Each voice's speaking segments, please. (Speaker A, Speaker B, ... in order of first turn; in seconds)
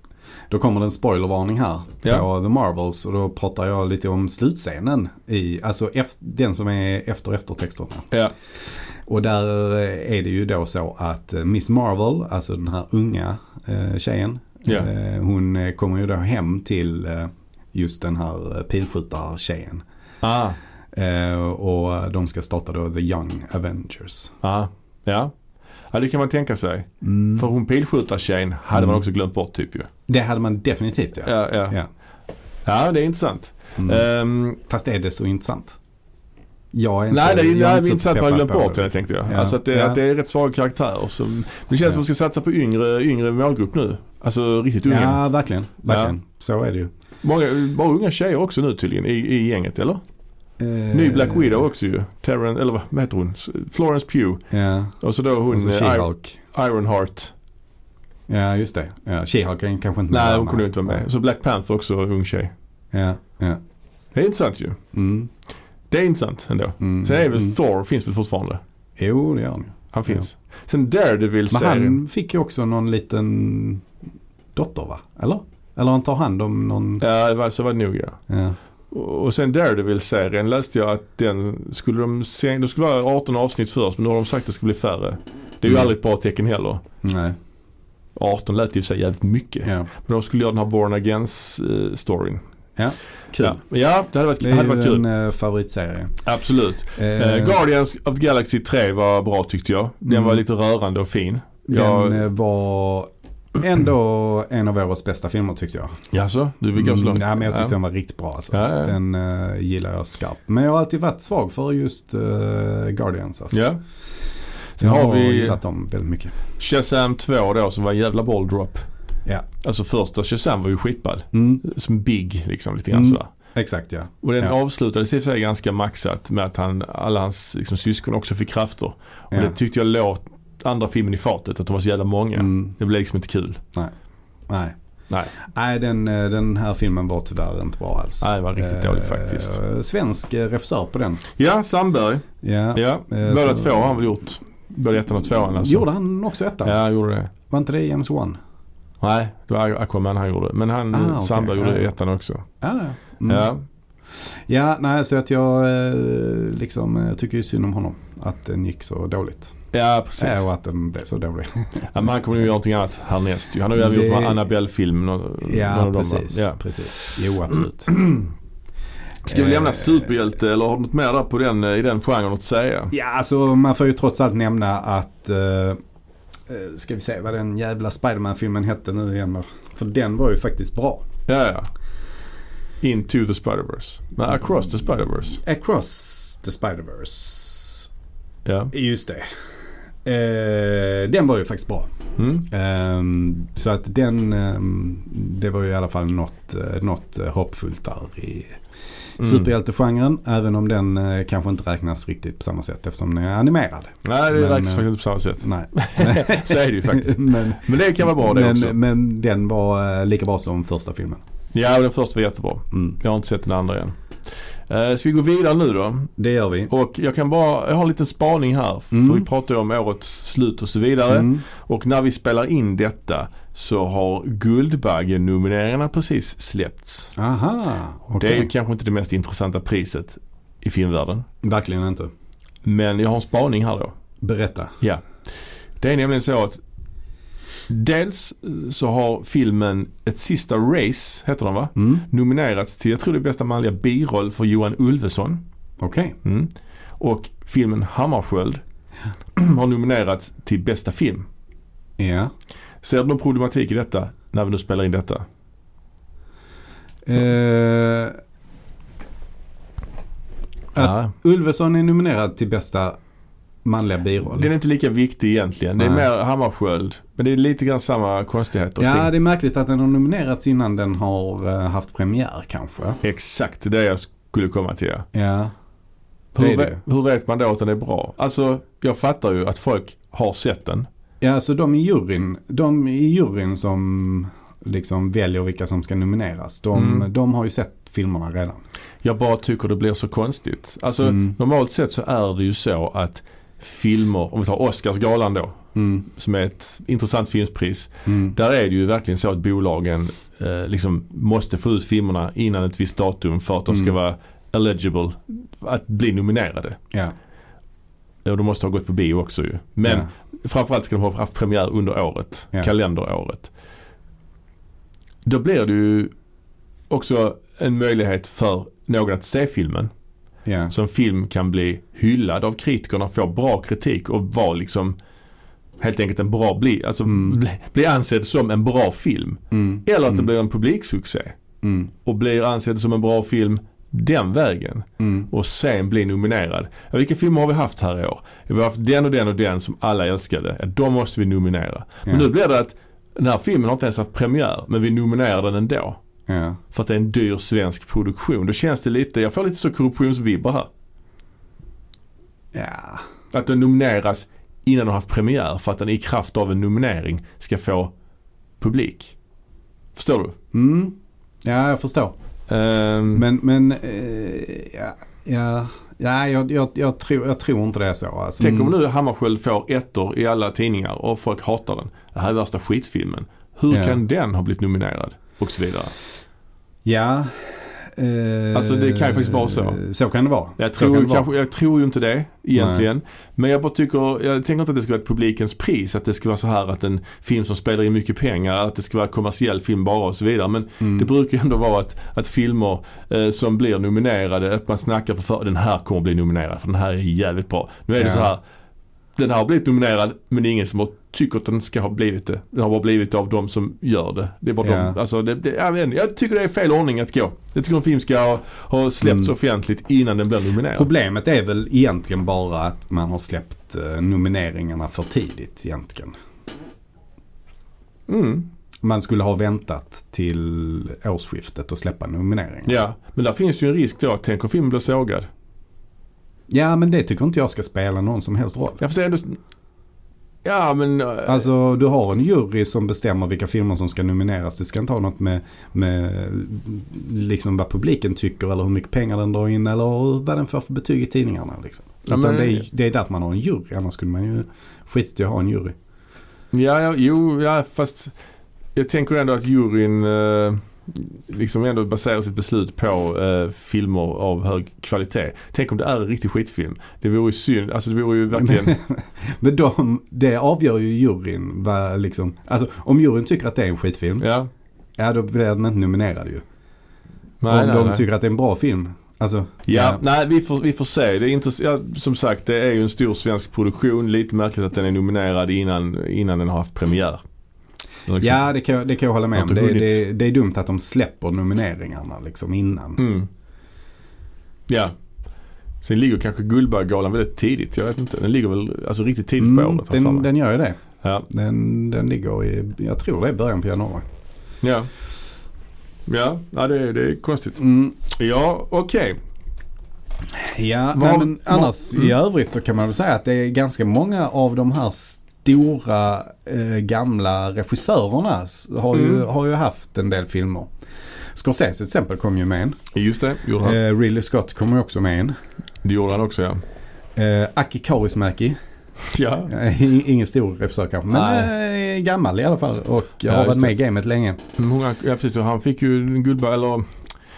Speaker A: 0.5-19.8, 20.9-24.4, 27.0-27.5, 28.7-29.0, 30.1-31.9, 33.8-34.1, 34.6-35.8, 36.7-40.0, 44.9-46.9, 50.6-51.6, 54.5-55.0, 55.5-56.4, 58.3-61.0, 62.9-63.6, 64.9-65.3, 66.8-67.6, 69.0-70.2, 71.5-73.9, 74.5-77.0, 78.3-78.6, 87.0-87.4, 92.8-93.6, 94.4-96.2, 97.0-97.6, 100.1-100.4, 101.7-105.9, 106.8-113.6, 114.8-116.3, 121.3-121.6, 122.9-124.5, 129.3-129.6, 132.4-132.7, 134.5-134.8, 135.4-141.2, 142.4-143.9, 145.4-146.8, 147.5-148.4, 150.9-151.9, 152.6-153.5, 154.5-159.6, 160.2-162.1, 163.8-164.4, 165.4-168.1, 169.3-170.1, 172.9-175.8, 176.5-181.1, 184.9-187.9, 188.7-189.3, 190.1-191.9, 192.5-198.6, 199.2-204.8, 205.4-211.2, 216.2-216.7, 218.9-219.3, 221.1-221.4, 227.2-228.5, 231.4-232.1, 234.2-234.8, 241.8-242.0, 245.8-246.2, 252.0-252.3, 257.0-258.2, 260.7-263.0, 263.6-264.5, 265.8-266.1, 268.8-273.0, 275.1-275.5, 276.4-276.8, 281.2-288.6, 291.0-291.3, 295.8-296.1, 298.1-298.4, 320.5-320.7, 327.1-327.4, 329.5-330.3, 331.6-331.9, 335.0-335.3, 346.3-346.6, 352.5-353.1, 360.5-362.1, 363.1-368.7, 373.7-374.0, 376.9-381.3, 382.6-382.9, 390.8-391.1, 398.0-398.3, 404.6-405.0, 409.0-409.3, 410.7-416.1, 418.8-422.7, 426.5-428.8, 431.2-445.8, 458.3-464.2, 465.0-466.4, 467.5-470.0, 478.2-483.0, 489.4-494.0, 497.6-497.9, 500.3-510.7, 511.3-512.8, 513.6-515.4, 517.1-518.6, 519.5-524.4
Speaker B: 20.2-20.6, 24.4-25.3, 25.9-29.9, 31.2-31.8, 32.6-34.6, 37.1-45.2, 45.9-46.1, 47.2-50.0, 50.9-54.4, 55.0-57.3, 60.1-62.5, 64.1-64.8, 65.9-68.6, 69.9-72.0, 77.0-78.2, 78.9-86.8, 88.2-92.4, 93.4-95.0, 96.2-102.2, 106.1-107.8, 108.5-108.9, 113.5-113.8, 114.8-115.6, 116.6-118.8, 119.6-123.3, 124.2-133.6, 138.2-139.6, 141.4-145.9, 146.6-147.3, 149.0-152.5, 153.3-153.6, 159.7-160.5, 161.9-167.6, 169.2-172.9, 181.3-181.7, 182.8-185.4, 188.4-188.7, 192.2-192.5, 199.2-199.5, 204.1-208.8, 211.5-213.9, 214.7-216.1, 216.7-227.1, 228.2-231.2, 232.6-233.9, 235.8-236.6, 237.7-245.4, 246.2-248.6, 249.4-251.2, 252.8-255.2, 260.8-261.1, 264.2-269.1, 273.0-275.1, 276.4-280.9, 286.8-287.1, 289.0-306.8, 308.2-313.5, 315.2-316.1, 316.9-319.9, 320.7-325.0, 325.8-331.4, 332.0-346.0, 346.7-350.7, 353.3-357.9, 358.6-359.1, 359.9-360.4, 362.5-363.2, 368.4-375.9, 378.5-379.8, 380.6-398.4, 399.1-410.9, 418.1-418.5, 422.6-425.3, 428.8-429.4, 430.4-431.4, 442.1-442.6, 446.5-448.1, 448.8-458.7, 464.2-464.5, 467.4-468.0, 469.7-477.2, 478.1-478.5, 479.4-480.0, 483.0-483.3, 484.7-484.9, 485.8-490.3, 491.0-491.3, 494.6-494.9, 496.1-499.2, 500.9-502.1, 508.9-509.2, 512.9-513.8, 515.8-516.6, 519.1-519.5, 521.1-521.5, 523.3-523.7, 524.6-526.9